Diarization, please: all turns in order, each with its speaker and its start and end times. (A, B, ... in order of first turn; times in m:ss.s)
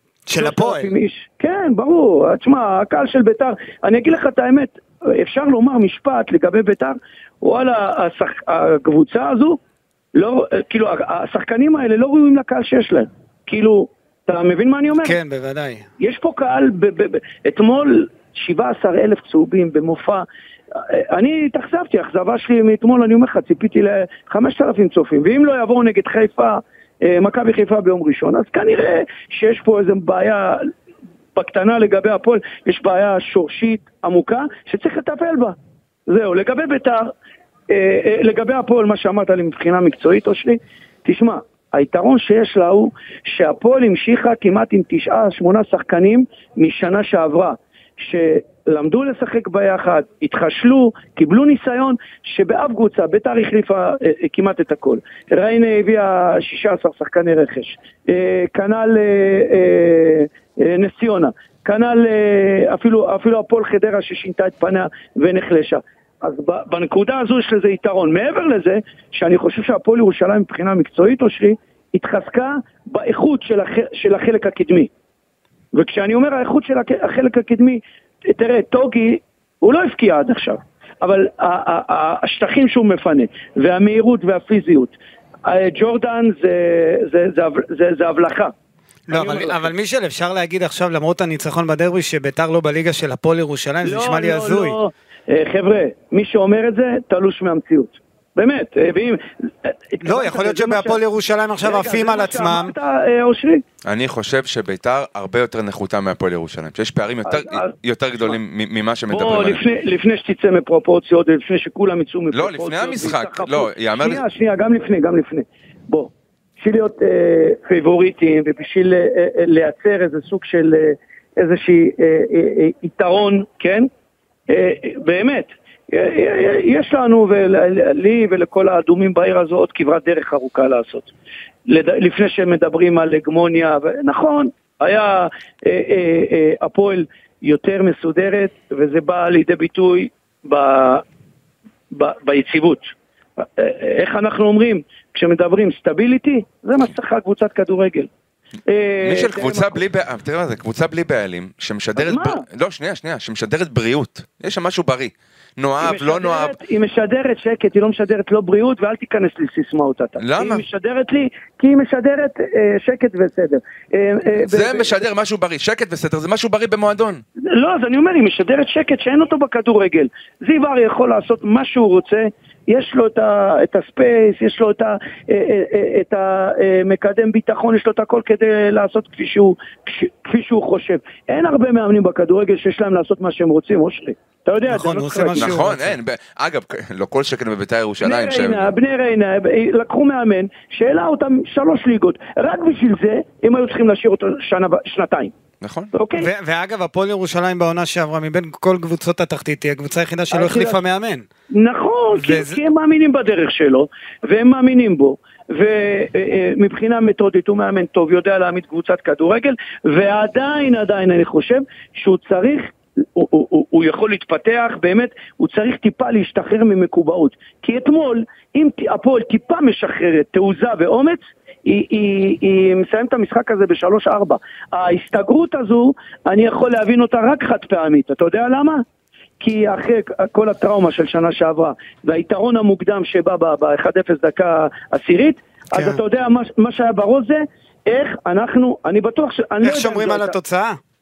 0:00.3-0:00.9 A
0:00.4-0:09.6 B
0:10.1-0:15.2 B
0:15.0-0:15.8 A
0:16.0-0:30.7 B
0:31.4-0:35.6 B
0:36.1-0:37.1 B
0:37.7-1:14.9 B
1:15.7-1:28.5 B
1:29.1-1:34.8 A
1:29.1-1:29.7 B
1:33.8-1:41.0 B
1:40.0-1:42.7 A
1:41.6-1:43.6 B
1:43.8-1:49.6 C
1:47.2-1:47.7 B
1:49.1-2:03.9 B
1:52.3-1:54.2 C
2:04.5-2:11.1 B
2:11.7-2:21.0 B
2:21.9-2:28.1 B
2:28.7-2:29.8 B
2:29.0-2:36.5 C
2:32.0-2:32.4 B
2:35.8-2:45.0 B
2:40.2-2:40.6 C
2:44.4-2:47.2 C
2:47.4-3:05.6 B
3:04.7-3:05.9 A
3:05.3-3:08.7 C
3:08.0-3:15.3 B
3:15.6-3:15.9 C
3:15.9-3:16.3 B
3:16.1-3:21.2 A
3:20.3-3:20.8 B
3:21.5-3:48.8 B
3:22.2-3:22.6 A
3:49.4-4:00.3 B
3:55.7-3:56.0 A
3:59.6-4:00.8 A